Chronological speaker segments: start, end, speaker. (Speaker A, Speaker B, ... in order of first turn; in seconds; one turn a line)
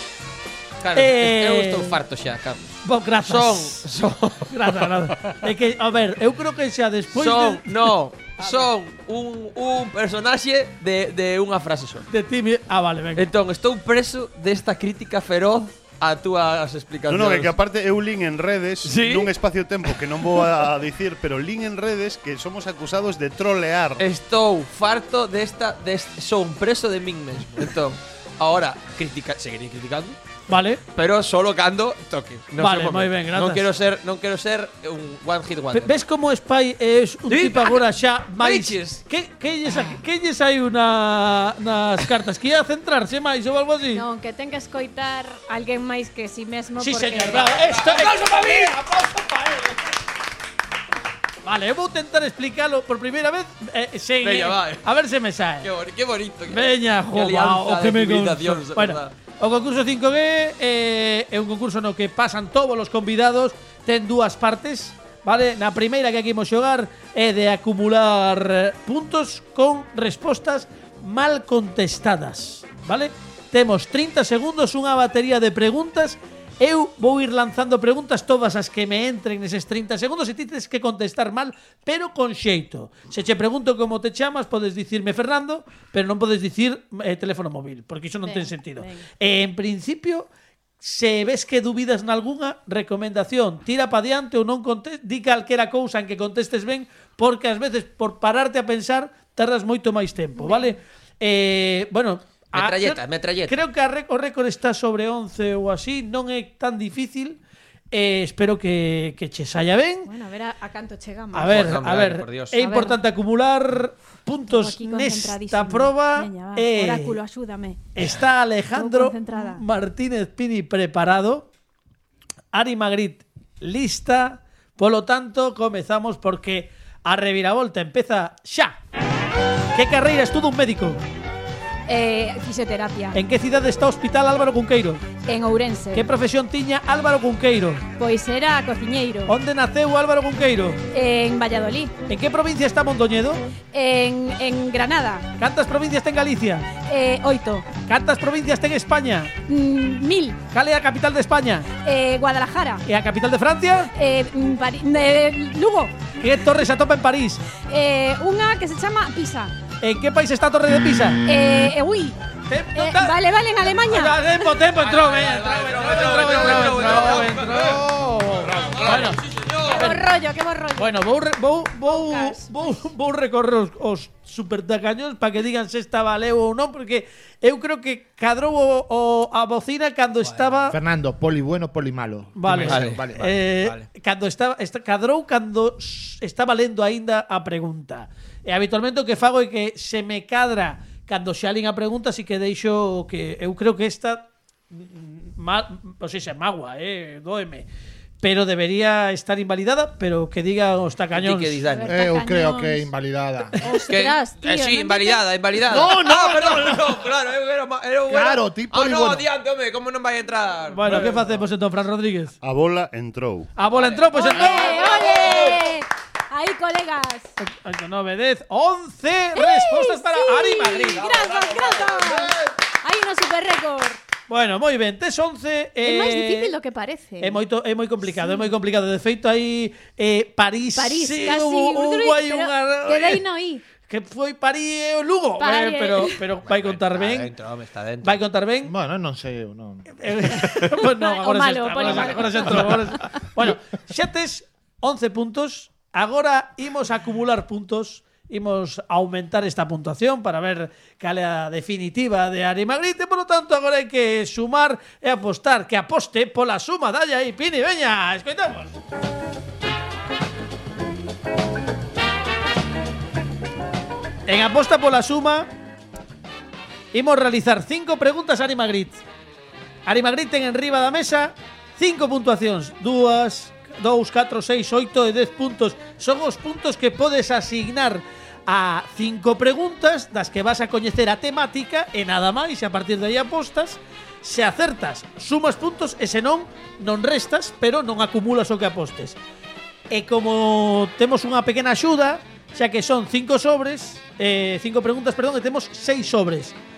Speaker A: 0.8-4.9
Speaker B: 0.9-2.0
Speaker B: 2.8-3.9
Speaker B: 4.5-7.7
Speaker A: 7.1-12.1
Speaker B: 8.4-8.7
Speaker B: 12.1-13.2
Speaker A: 13.2-17.5
Speaker C: 17.1-24.1
Speaker A: 18.8-19.3
Speaker A: 24.0-30.2
Speaker B: 30.5-30.8
Speaker A: 30.9-36.0
Speaker B: 32.6-33.7
Speaker B: 35.7-44.0
Speaker A: 37.3-37.8
Speaker A: 38.4-39.0
Speaker D: 43.9-47.5
Speaker B: 46.8-49.8
Speaker A: 47.6-48.8
Speaker B: 51.4-55.7
Speaker A: 54.2-54.9
Speaker A: 55.6-59.1
Speaker B: 56.5-90.3
Speaker D: 88.2-89.0
Speaker B: 90.8-107.4
Speaker D: 100.4-100.8
Speaker A: 102.5-103.6
Speaker B: 107.9-110.1
Speaker D: 110.1-111.6
Speaker B: 111.3-117.2
Speaker A: 111.5-112.8
Speaker D: 112.6-113.0
Speaker D: 114.5-117.9
Speaker B: 118.0-121.5
Speaker D: 118.7-119.6
Speaker B: 122.5-128.8
Speaker B: 129.8-131.0
Speaker D: 131.9-133.2
Speaker B: 133.1-135.1
Speaker D: 135.2-136.1
Speaker B: 135.9-137.8
Speaker D: 138.0-139.3
Speaker B: 139.3-140.8
Speaker D: 140.9-142.0
Speaker B: 142.1-143.4
Speaker D: 143.7-145.3
Speaker B: 145.4-146.7
Speaker D: 146.8-147.7
Speaker B: 147.8-149.3
Speaker D: 149.5-150.4
Speaker B: 150.5-151.7
Speaker D: 151.8-152.8
Speaker B: 152.8-153.9
Speaker D: 153.9-156.4
Speaker B: 156.2-157.4
Speaker D: 157.5-159.5
Speaker B: 159.8-161.2
Speaker D: 161.3-162.2
Speaker B: 162.5-163.2
Speaker D: 162.8-164.4
Speaker B: 163.9-169.2
Speaker A: 164.8-167.8
Speaker E: 167.5-169.0
Speaker A: 168.4-170.0
Speaker D: 169.7-170.9
Speaker B: 169.7-170.0
Speaker B: 170.8-180.8
Speaker D: 171.9-172.7
Speaker A: 180.2-180.5
Speaker E: 180.7-183.3
Speaker B: 182.4-197.7
Speaker A: 182.5-183.9
Speaker B: 198.2-201.6
Speaker A: 201.2-202.0
Speaker D: 201.8-202.9
Speaker E: 201.9-203.6
Speaker D: 203.6-205.3
Speaker A: 203.9-211.2
Speaker E: 205.7-207.0
Speaker E: 208.1-209.2
Speaker B: 210.7-212.3
Speaker C: 212.4-213.5
Speaker B: 213.6-215.0
Speaker A: 213.7-215.3
Speaker D: 214.1-217.3
Speaker B: 217.4-221.1
Speaker D: 219.4-224.0
Speaker E: 221.4-222.2
Speaker B: 224.3-226.5
Speaker D: 225.8-227.4
Speaker B: 227.2-233.2
Speaker D: 228.0-228.5
Speaker D: 230.8-233.6
Speaker B: 233.9-237.3
Speaker D: 235.4-236.2
Speaker A: 236.4-238.2
Speaker B: 238.0-238.7
Speaker E: 238.6-239.9
Speaker B: 239.9-258.8
Speaker D: 240.8-243.2
Speaker B: 264.3-265.5
Speaker B: 266.9-269.0
Speaker B: 269.9-289.2
Speaker B: 289.9-296.6